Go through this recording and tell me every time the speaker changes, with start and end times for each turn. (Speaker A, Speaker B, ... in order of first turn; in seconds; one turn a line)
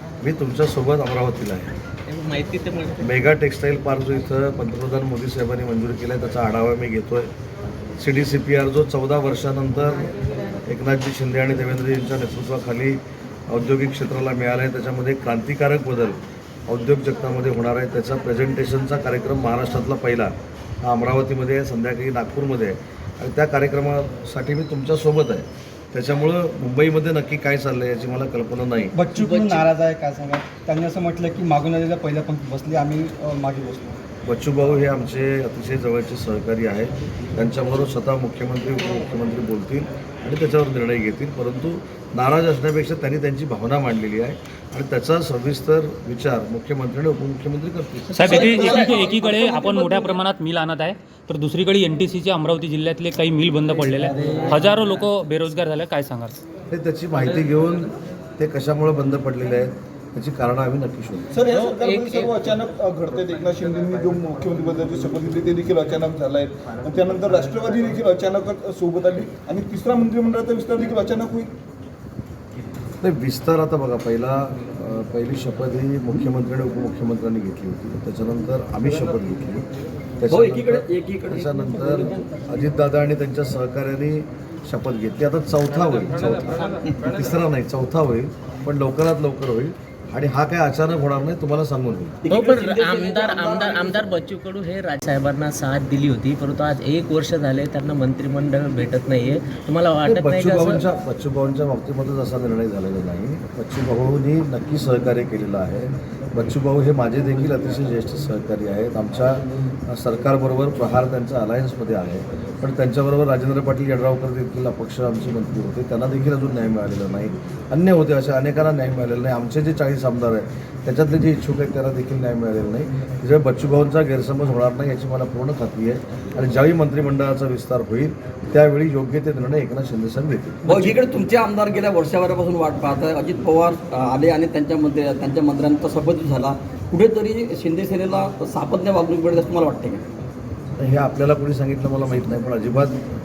Speaker A: 0.2-1.7
Speaker B: 2.1-3.1
Speaker A: 3.0-7.3
Speaker A: 8.0-10.1
Speaker A: 10.7-20.3
Speaker A: 20.8-28.9
Speaker C: 28.9-34.0
Speaker B: 29.1-29.6
Speaker A: 34.2-48.9
Speaker D: 48.1-56.4
Speaker E: 48.2-50.2
Speaker B: 54.2-54.5
Speaker A: 56.7-61.3
Speaker F: 61.3-71.5
Speaker B: 61.5-62.3
Speaker A: 73.0-79.7
Speaker A: 80.2-92.2
Speaker E: 80.3-82.2
Speaker E: 92.2-94.0
Speaker B: 92.3-100.8
Speaker A: 100.0-131.0
Speaker E: 130.7-140.0
Speaker A: 140.8-143.0